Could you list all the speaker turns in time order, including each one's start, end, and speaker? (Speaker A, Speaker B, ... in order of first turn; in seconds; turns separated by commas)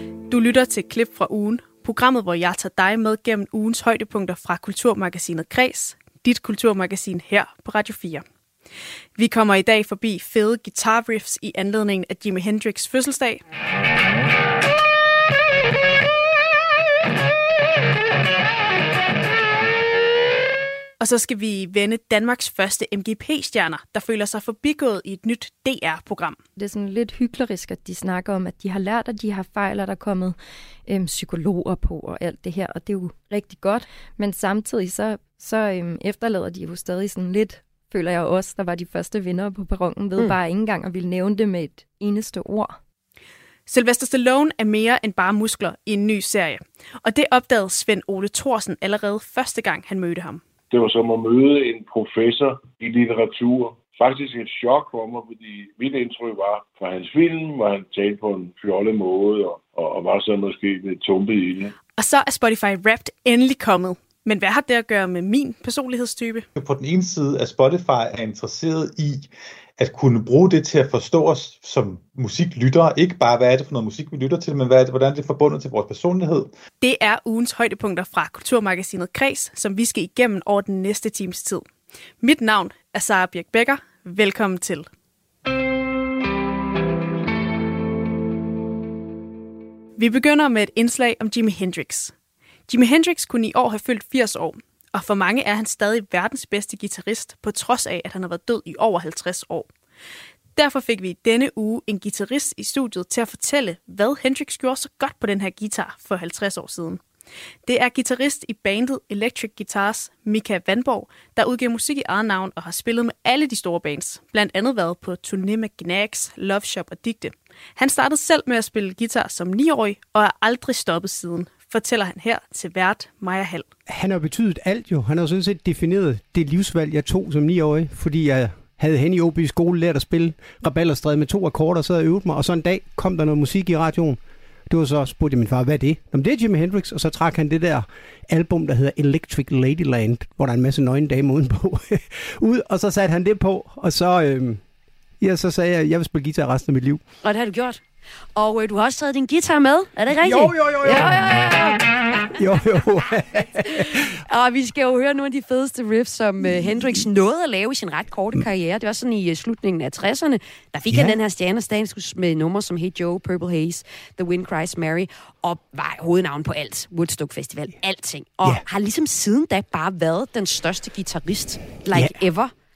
Speaker A: 0.3-8.2, Speaker A: 9.2-13.4, Speaker A: 21.0-26.4, Speaker B: 26.6-42.8, Speaker A: 43.7-50.4, Speaker C: 50.7-61.7, Speaker A: 62.0-66.5, Speaker D: 66.6-76.5, Speaker A: 76.8-81.7, Speaker A: 82.2-84.9, Speaker A: 90.0-92.1, Speaker A: 92.7-99.7, Speaker A: 100.6-107.0, Speaker A: 107.7-123.7, Speaker E: 123.9-144.6, Speaker E: 145.2-147.0, Speaker F: 147.2-147.8, Speaker F: 148.3-151.9, Speaker E: 150.1-151.6, Speaker E: 152.3-154.2, Speaker F: 153.7-172.5, Speaker E: 156.4-157.0, Speaker E: 160.9-161.2, Speaker E: 171.9-172.2